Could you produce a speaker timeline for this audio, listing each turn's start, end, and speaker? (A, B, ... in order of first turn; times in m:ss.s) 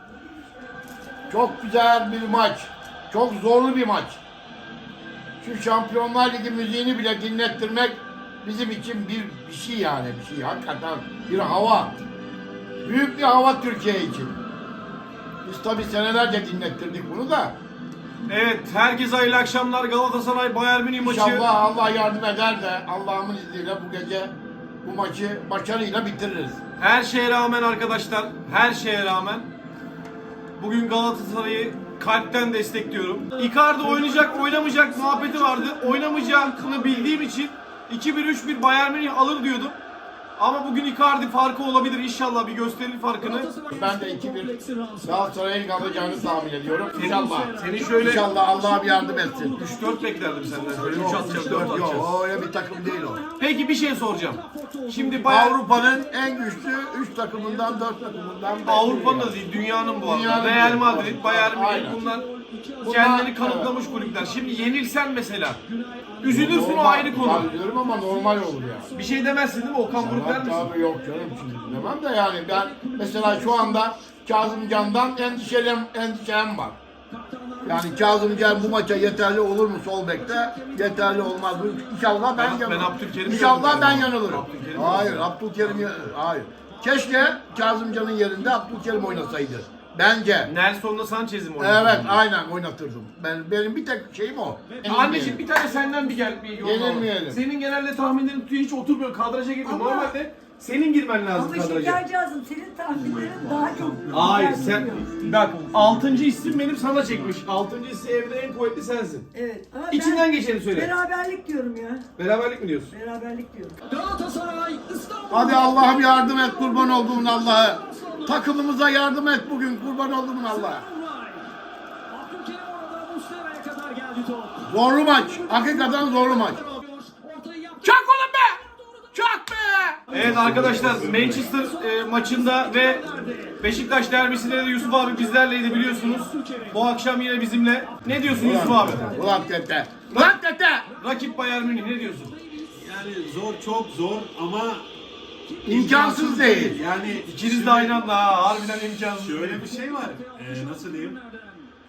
0:01.3-0:04.2 A
0:05.4-0:12.0 A
0:12.8-0:14.4 A
0:15.4-0:17.6 A
0:18.3-0:21.5 B
0:21.0-0:26.6 A
0:26.8-0:29.5 B
0:30.6-0:39.8 B
0:33.6-0:37.3 C
0:40.4-0:43.5 B
0:43.2-1:04.8 C
0:43.7-0:49.6 A
0:46.9-0:48.3 B
0:49.5-0:52.2 B
0:50.9-0:53.2 A
0:53.4-0:55.6 B
0:55.3-0:59.4 A
0:58.6-1:02.3 B
1:00.0-1:02.0 A
1:02.8-1:03.7 A
1:02.8-1:05.6 B
1:05.6-1:15.7 C
1:06.2-1:07.5 B
1:06.3-1:08.9 A
1:09.0-1:10.8 B
1:09.9-1:16.8 A
1:17.1-1:19.4 C
1:17.6-1:30.5 A
1:20.0-1:25.4 C
1:22.4-1:25.9 B
1:26.7-1:29.5 C
1:30.4-1:32.2 B
1:31.6-1:35.4 A
1:34.7-1:36.8 C
1:34.8-1:42.0 B
1:36.6-1:37.4 A
1:39.6-1:40.2 D
1:41.3-1:45.1 D
1:43.0-1:46.5 C
1:44.1-1:49.3 B
1:49.3-1:52.1 D
1:49.9-1:51.0 B
1:52.2-1:52.9 B
1:52.9-1:53.8 D
1:53.9-1:58.5 C
1:55.3-2:00.8 A
2:00.4-2:01.5 C
2:02.1-2:09.2 C
2:04.6-2:06.6 A
2:07.8-2:11.4 A
2:10.1-2:17.0 C
2:10.1-2:13.0 B
2:10.2-2:11.5 E
2:13.6-2:19.2 B
2:17.9-2:19.5 C
2:18.1-2:19.0 E
2:18.3-2:20.9 A
2:20.9-2:23.2 C
2:21.0-2:22.4 B
2:22.8-2:24.9 E
2:25.5-2:27.5 C
2:25.7-2:26.8 A
2:25.7-2:28.0 E
2:27.3-2:29.6 B
2:29.1-2:31.2 E
2:29.5-2:31.7 C